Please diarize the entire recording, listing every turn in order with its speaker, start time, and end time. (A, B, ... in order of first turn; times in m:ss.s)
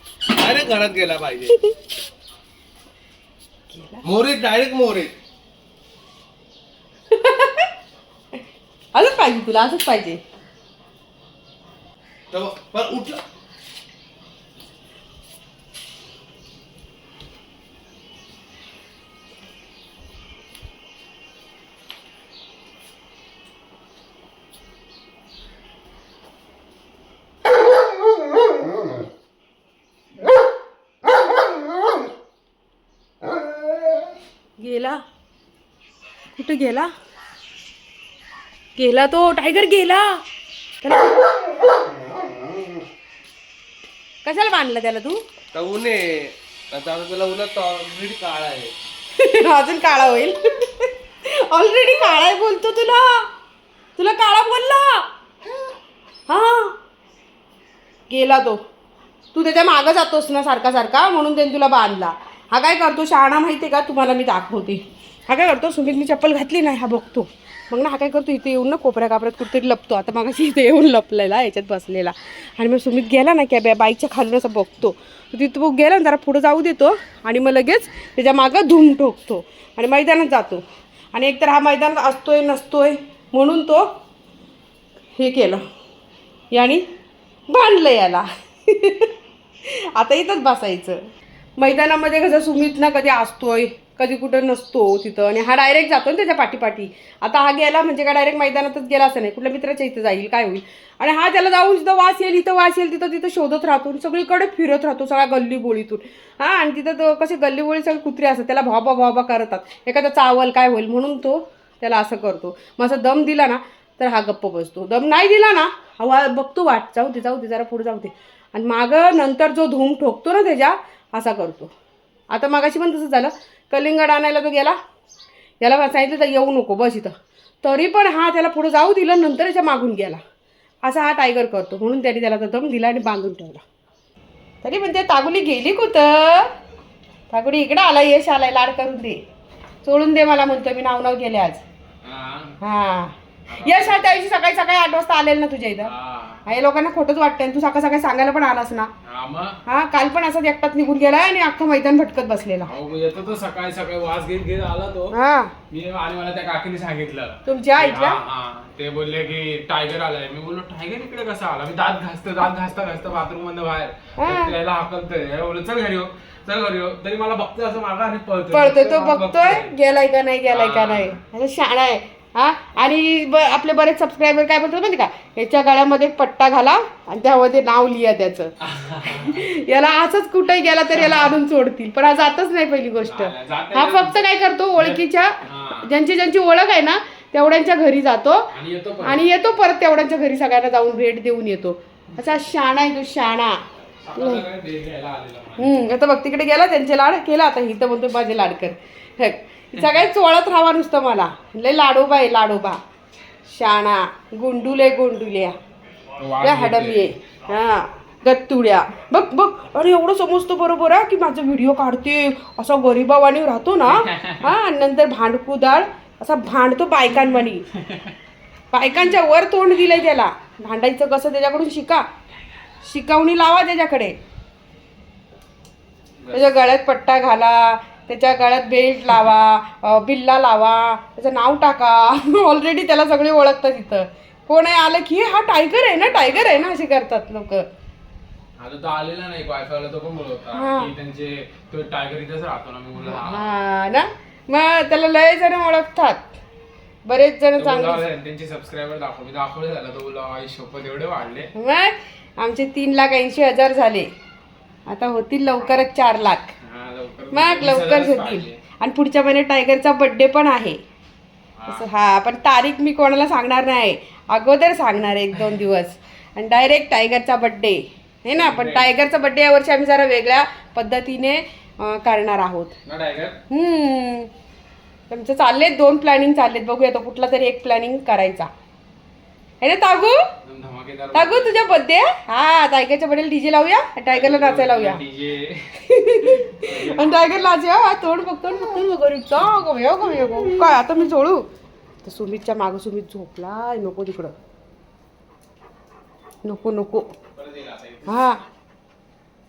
0:00.3-0:01.6 A
0:03.7-0:04.0 B
0:04.0-0:05.1 A
0:07.1-0:07.7 B
0:08.9-0:10.2 B
0:12.3-0:13.2 A
0:34.6-0:35.0 B
0:36.3-0:36.9 B
0:38.8-0:40.2 B
0:40.8-0:41.2 B
0:44.2-0:45.2 B
0:45.5-0:48.7 A
0:49.2-0:53.3 B
0:54.0-0:55.1 B
0:56.3-0:56.8 B
0:58.1-0:58.6 B
0:59.3-1:23.9 B
1:25.1-1:25.6 B
1:26.5-1:26.8 B
1:27.5-1:29.1 B
1:29.6-1:31.0 B
1:31.6-2:01.7 B
2:02.3-2:04.8 B
2:05.6-2:10.2 B
2:10.8-2:13.6 B
2:14.6-2:16.5 B
2:17.3-2:19.2 B
2:19.8-2:21.6 B
2:22.0-2:22.6 C
2:22.6-2:25.9 B
2:23.5-2:24.1 C
2:25.8-2:26.4 C
2:26.4-2:28.9 B
2:29.0-2:29.6 C
2:29.6-2:32.7 B
2:32.6-2:35.1 C
2:35.1-2:35.5 B
2:35.7-2:49.7 C
2:37.4-2:38.2 B
2:44.2-2:44.5 B
2:48.5-2:58.5 B
2:50.5-2:51.2 C
2:58.6-2:59.4 C
2:59.0-3:08.5 B
3:03.0-3:04.2 C
3:04.8-3:05.9 C
3:08.5-3:09.2 C
3:09.0-3:13.6 B
3:14.0-3:15.8 C
3:14.1-3:14.4 B
3:15.6-3:22.8 B
3:23.4-3:25.6 B
3:26.2-3:27.1 C
3:26.4-3:37.7 B
3:33.9-3:34.4 C
3:37.8-3:38.1 C
3:38.7-3:42.1 B
3:42.8-3:44.2 B
3:46.3-3:57.6 B
3:58.6-4:03.5 C
4:00.5-4:00.9 B
4:03.0-4:06.3 B
4:07.0-4:08.0 B
4:07.6-4:11.5 C
4:11.5-4:14.1 B
4:14.9-4:16.5 B
4:16.6-4:18.6 C
4:17.3-4:20.8 B
4:21.6-4:21.8 C
4:21.7-4:32.8 B
4:28.3-4:29.0 C
4:32.8-4:33.4 C
4:33.5-4:34.3 B
4:35.1-4:38.5 B
4:39.6-4:40.3 B
4:40.4-4:41.5 C
4:41.1-4:45.0 B
4:44.1-4:47.3 C
4:45.8-4:51.5 B
4:52.0-4:54.3 B
4:56.4-4:57.1 B
4:57.4-4:58.3 C
4:58.0-4:58.4 B